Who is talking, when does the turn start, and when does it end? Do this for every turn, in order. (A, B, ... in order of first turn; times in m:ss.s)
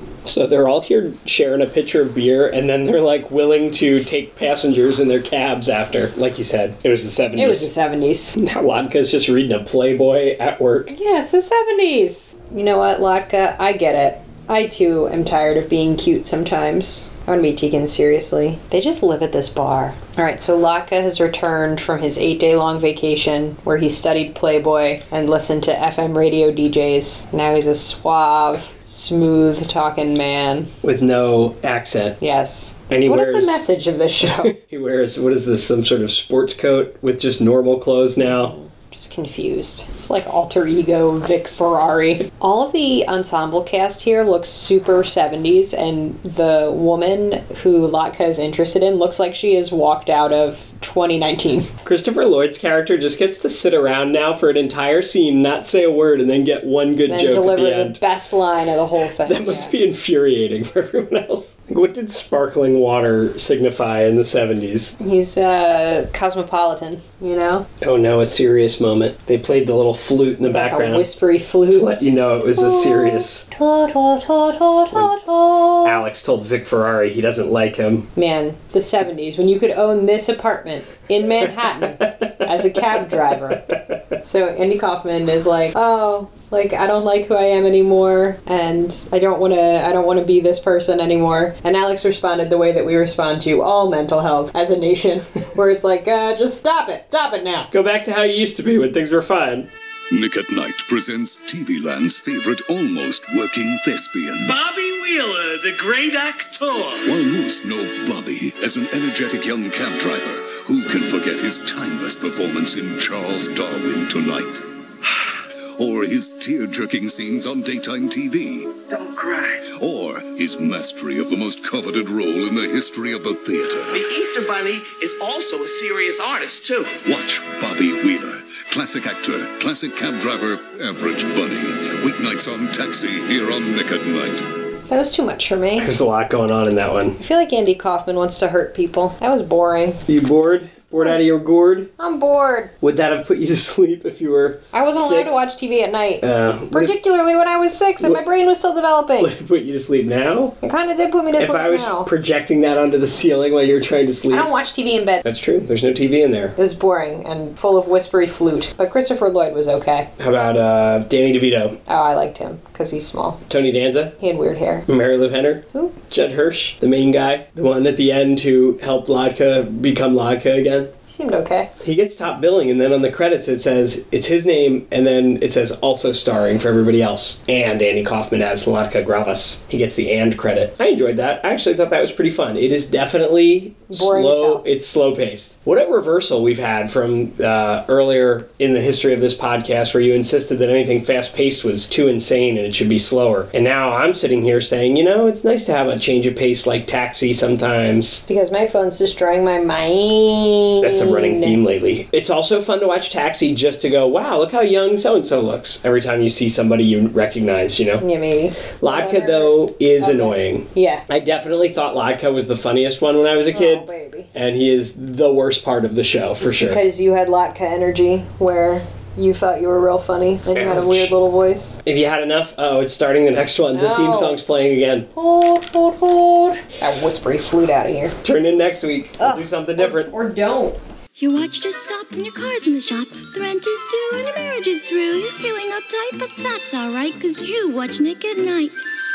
0:00.2-0:07.7 A
0:07.4-0:08.4 B
0:08.4-0:10.9 A
0:10.9-0:30.7 B
0:30.8-0:32.2 A
0:32.2-0:34.6 B
0:32.9-0:33.6 A
0:34.2-0:38.6 A
0:38.2-0:51.7 B
0:51.8-0:58.0 A
0:57.1-0:59.7 B
0:59.2-1:05.0 A
1:05.0-1:07.7 B
1:07.8-1:11.1 A
1:10.4-1:11.9 B
1:11.7-1:13.5 A
1:12.5-1:16.0 B
1:15.8-1:18.1 A
1:18.2-1:23.7 B
1:24.2-1:37.7 B
1:37.7-1:39.7 A
1:40.1-1:44.6 C
1:44.4-1:47.1 D
1:47.0-1:54.6 C
1:55.8-1:58.8 C
1:58.9-1:59.6 D
1:59.7-2:04.1 C
2:03.9-2:07.0 D
2:07.0-2:14.5 C
2:14.9-2:15.9 B
2:15.8-2:17.2 A
2:17.2-2:20.0 B
2:20.1-2:21.9 A
2:22.0-2:22.7 B
2:22.8-2:25.5 A
2:24.7-2:29.3 B
2:26.2-2:27.0 A
2:29.2-2:30.6 A
2:30.6-2:32.1 B
2:31.4-2:34.5 A
2:34.3-2:35.2 B
2:35.2-2:36.6 A
2:36.6-2:40.1 B
2:40.2-2:41.8 A
2:41.9-2:43.4 B
2:43.5-2:44.2 A
2:44.2-2:44.9 B
2:44.9-2:50.9 A
2:51.1-2:51.7 B
2:51.8-3:18.2 A
3:03.9-3:04.6 B
3:18.3-3:21.6 B
3:20.8-3:28.0 A
3:28.0-3:31.0 B
3:28.8-3:36.8 A
3:33.5-3:34.3 B
3:36.4-3:41.8 B
3:40.5-3:41.1 A
3:41.8-3:45.1 A
3:43.7-3:44.4 B
3:45.1-3:48.2 B
3:48.2-3:50.1 A
3:49.2-3:50.8 B
3:51.2-3:58.8 E